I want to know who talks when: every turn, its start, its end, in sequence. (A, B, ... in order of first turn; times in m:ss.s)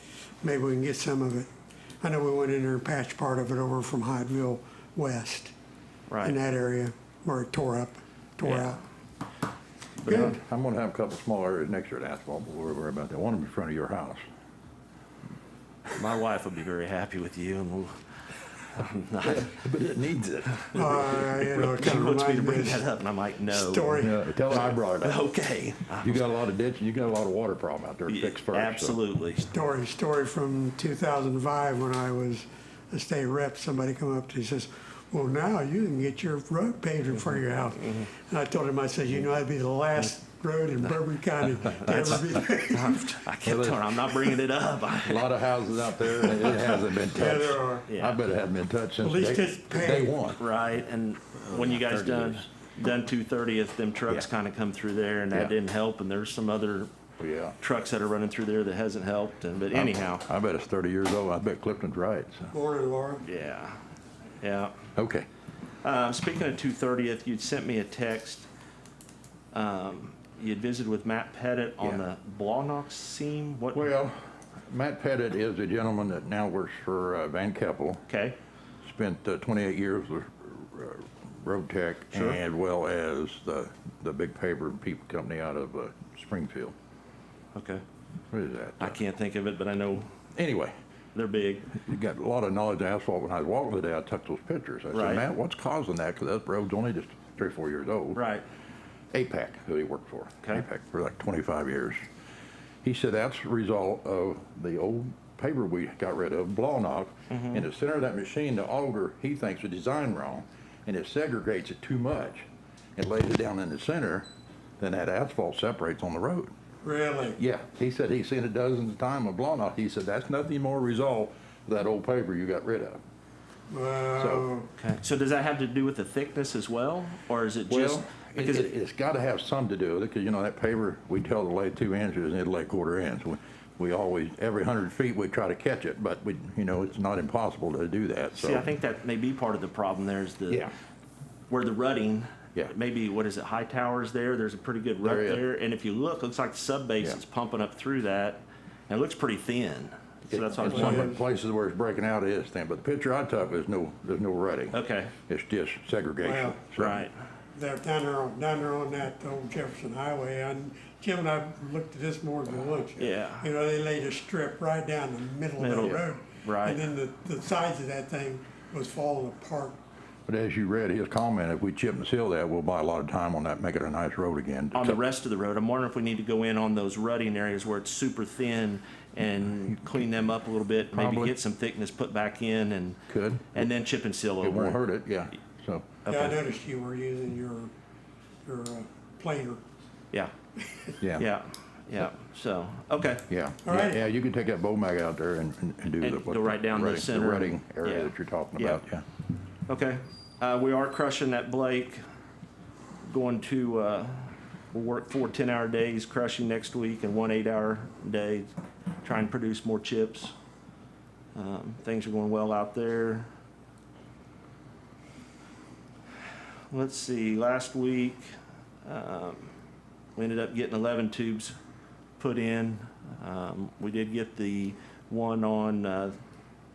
0:00.4-0:01.5 A
0:02.0-0:05.5 A
0:06.1-0:06.4 B
0:06.2-0:08.8 A
0:10.0-0:10.3 B
0:10.0-0:14.2 C
0:10.1-0:10.4 A
0:16.0-0:17.9 B
0:18.7-0:19.6 B
0:19.2-0:21.3 C
0:20.7-0:22.8 A
0:21.3-0:26.3 B
0:23.5-0:24.2 A
0:24.0-0:25.3 C
0:26.0-0:29.0 C
0:28.1-0:29.5 B
0:29.5-0:43.2 A
0:41.6-0:45.3 B
0:43.4-0:43.9 C
0:45.0-0:50.4 C
0:46.0-0:47.9 A
0:47.9-0:48.2 B
0:49.0-0:50.3 A
0:50.4-0:56.9 B
0:51.5-0:52.4 C
0:57.2-0:57.6 C
0:57.6-1:00.2 B
0:59.7-1:02.5 C
1:02.5-1:03.2 A
1:03.2-1:03.8 B
1:04.4-1:04.7 B
1:05.0-1:05.3 C
1:05.8-1:08.5 B
1:09.5-1:13.8 B
1:13.7-1:18.0 C
1:18.1-1:18.4 B
1:18.8-1:26.8 C
1:22.1-1:22.4 B
1:27.6-1:27.8 B
1:28.3-1:29.0 C
1:28.8-1:30.1 B
1:30.3-1:30.7 C
1:31.2-1:31.7 B
1:31.7-1:38.2 C
1:34.9-1:35.2 B
1:38.2-1:38.4 B
1:39.1-1:42.0 C
1:42.8-1:54.3 C
1:47.3-1:47.7 B
1:54.8-1:56.5 C
1:56.8-1:57.4 A
1:57.4-2:03.0 C
2:03.7-2:04.7 A
2:04.2-2:04.4 C
2:04.8-2:08.7 B
2:07.7-2:18.7 C
2:18.4-2:20.7 B
2:21.5-2:31.1 B
2:25.0-2:25.4 C
2:30.3-2:34.8 C
2:30.6-2:31.2 A
2:34.7-2:35.1 B
2:35.3-2:37.1 C
2:36.2-2:36.7 A
2:36.8-2:37.2 B
2:37.6-2:49.8 A
2:43.0-2:43.5 B
2:45.6-2:46.8 B
2:50.3-2:55.0 C
2:54.7-3:03.0 B
3:00.9-3:01.4 C
3:03.1-3:03.7 C
3:03.5-3:04.8 B
3:04.4-3:05.9 C
3:06.1-3:06.3 B
3:06.1-3:07.7 A
3:08.4-3:09.6 A
3:10.7-3:10.9 A
3:11.0-3:11.2 C
3:11.2-3:13.2 B
3:13.3-3:19.0 C
3:13.6-3:14.0 A
3:16.0-3:18.8 B
3:19.7-3:22.0 B
3:23.1-3:28.5 B
3:29.0-3:30.3 B
3:31.3-3:33.3 B
3:36.7-3:38.3 B
3:38.8-3:39.5 B
3:40.2-3:41.6 B
3:42.2-3:46.1 B